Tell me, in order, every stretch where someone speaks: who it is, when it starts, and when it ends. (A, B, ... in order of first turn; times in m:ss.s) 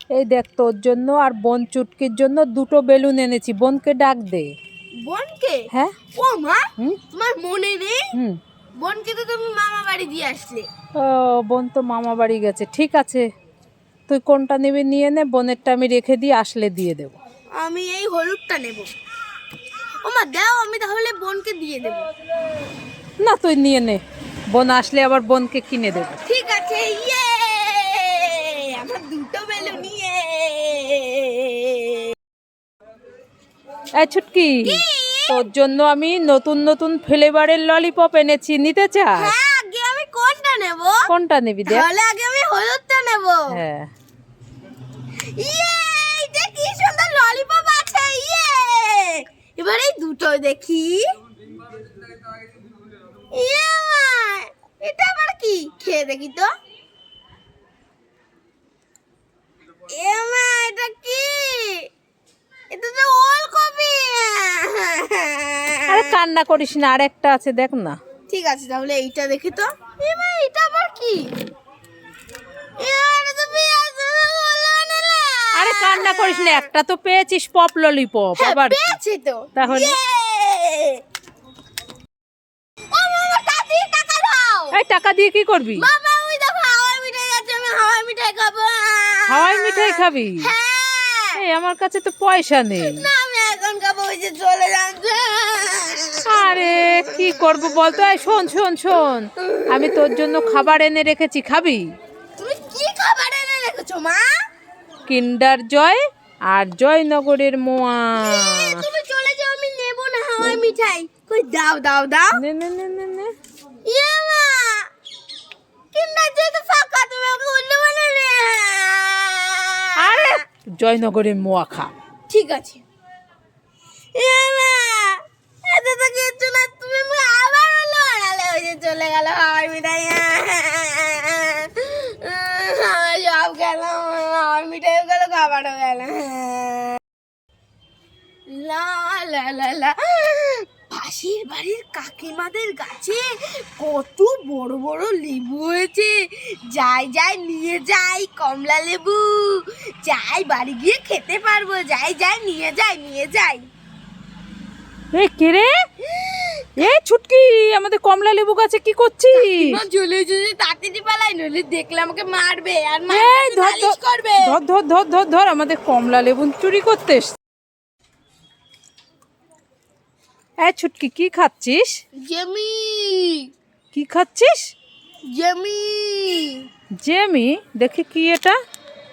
0:00.1-0:04.5 A
0:05.0-0:08.1 B
0:08.8-0:10.7 B
0:11.0-0:13.2 A
0:14.1-0:17.2 A
0:17.6-0:18.9 B
0:20.0-0:22.0 B
0:23.2-0:26.2 A
0:26.2-0:32.1 B
0:34.0-0:39.3 A
0:34.6-0:35.5 B
0:39.1-0:41.0 B
0:41.1-0:41.9 A
0:41.7-0:43.5 B
0:43.5-0:43.9 A
0:45.3-0:51.0 B
0:53.3-0:56.5 B
0:59.9-1:01.8 B
1:02.7-1:06.1 B
1:05.9-1:08.0 A
1:08.3-1:11.3 B
1:12.8-1:16.7 B
1:15.5-1:19.0 A
1:18.4-1:21.0 B
1:19.5-1:19.9 A
1:22.9-1:24.8 B
1:24.7-1:25.9 A
1:25.8-1:31.4 B
1:29.3-1:30.5 A
1:31.4-1:33.1 A
1:32.8-1:37.3 B
1:36.3-1:41.8 A
1:39.4-1:40.6 B
1:42.4-1:44.3 B
1:45.1-1:48.8 A
1:48.2-1:52.4 B
1:52.4-1:53.3 A
1:53.8-1:54.9 B
1:55.9-2:00.4 B
2:00.0-2:01.9 A
2:02.3-2:02.8 B
2:04.1-2:17.0 B
2:18.5-2:33.6 B
2:35.1-2:35.7 A
2:36.1-2:36.9 B
2:36.8-2:39.8 A
2:39.3-2:44.6 B
2:43.1-2:47.4 A
2:50.6-2:52.0 A
2:52.2-2:53.5 B
2:53.9-2:54.7 A
2:55.3-2:56.7 B
2:57.0-2:58.5 A